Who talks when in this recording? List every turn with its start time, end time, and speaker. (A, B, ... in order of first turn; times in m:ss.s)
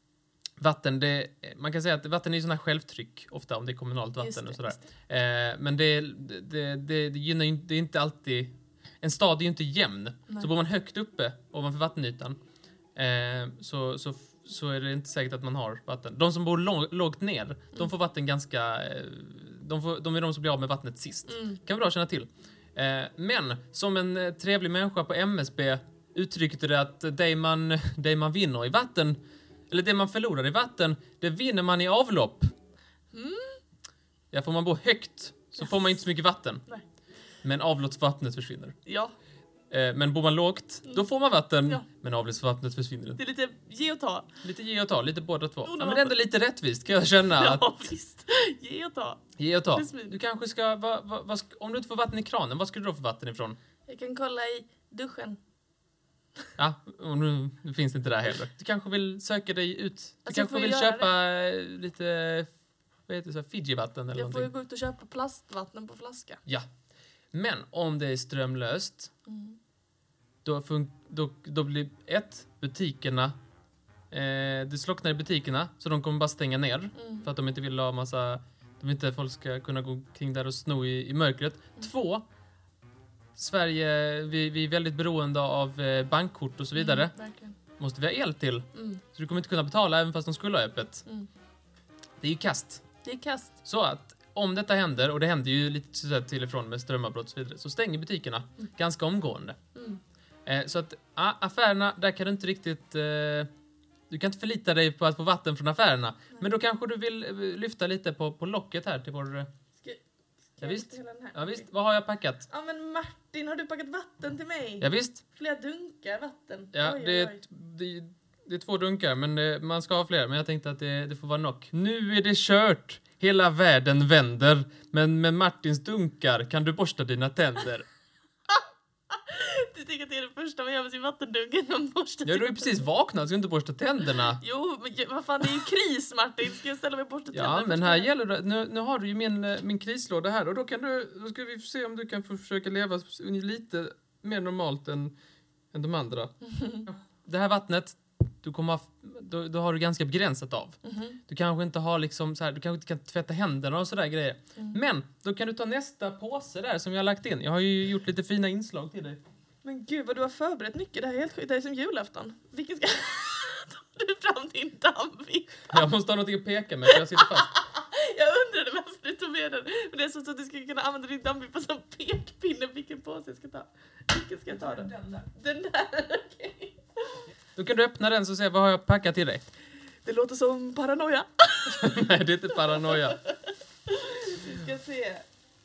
0:00.6-0:12.4 A
0:04.2-0:04.8 B
0:13.0-0:29.2 A
0:21.3-0:21.6 B
0:29.7-0:32.5 A
0:33.1-0:33.6 B
0:34.3-0:36.6 A
0:37.4-0:38.8 A
0:38.9-0:39.1 B
0:39.7-0:43.2 A
0:43.2-0:44.3 B
0:44.4-0:47.7 A
0:45.6-0:46.2 B
0:47.3-0:50.2 B
0:49.4-0:53.6 A
0:53.9-0:55.4 B
0:56.6-1:02.5 A
1:00.3-1:01.1 B
1:03.1-1:04.5 A
1:04.1-1:06.4 B
1:07.3-1:09.1 A
1:09.3-1:09.6 B
1:10.4-1:13.3 A
1:14.1-1:22.2 A
1:17.0-1:17.3 B
1:23.4-1:27.1 A
1:26.8-1:27.6 B
1:27.8-1:31.0 A
1:28.7-1:29.0 B
1:32.2-1:32.8 A
1:33.0-1:33.5 B
1:33.6-1:39.6 A
1:39.8-1:40.0 B
1:40.5-1:43.5 A
1:44.1-1:49.5 A
1:50.6-1:51.6 B
1:50.6-1:52.5 A
1:52.5-1:57.4 B
1:54.8-1:55.2 A
1:56.7-2:07.9 A
2:08.5-2:12.8 B
2:12.2-2:14.4 A
2:14.3-2:18.1 B
2:17.3-2:25.1 A
2:25.7-2:26.3 A
2:26.4-2:26.9 B
2:26.9-2:39.2 A
2:30.8-2:31.2 B
2:39.6-2:45.8 B
2:45.7-2:47.5 A
2:46.9-2:57.2 B
2:57.6-2:59.5 A
3:00.0-3:02.0 B
3:01.7-3:03.2 A
3:02.6-3:05.3 B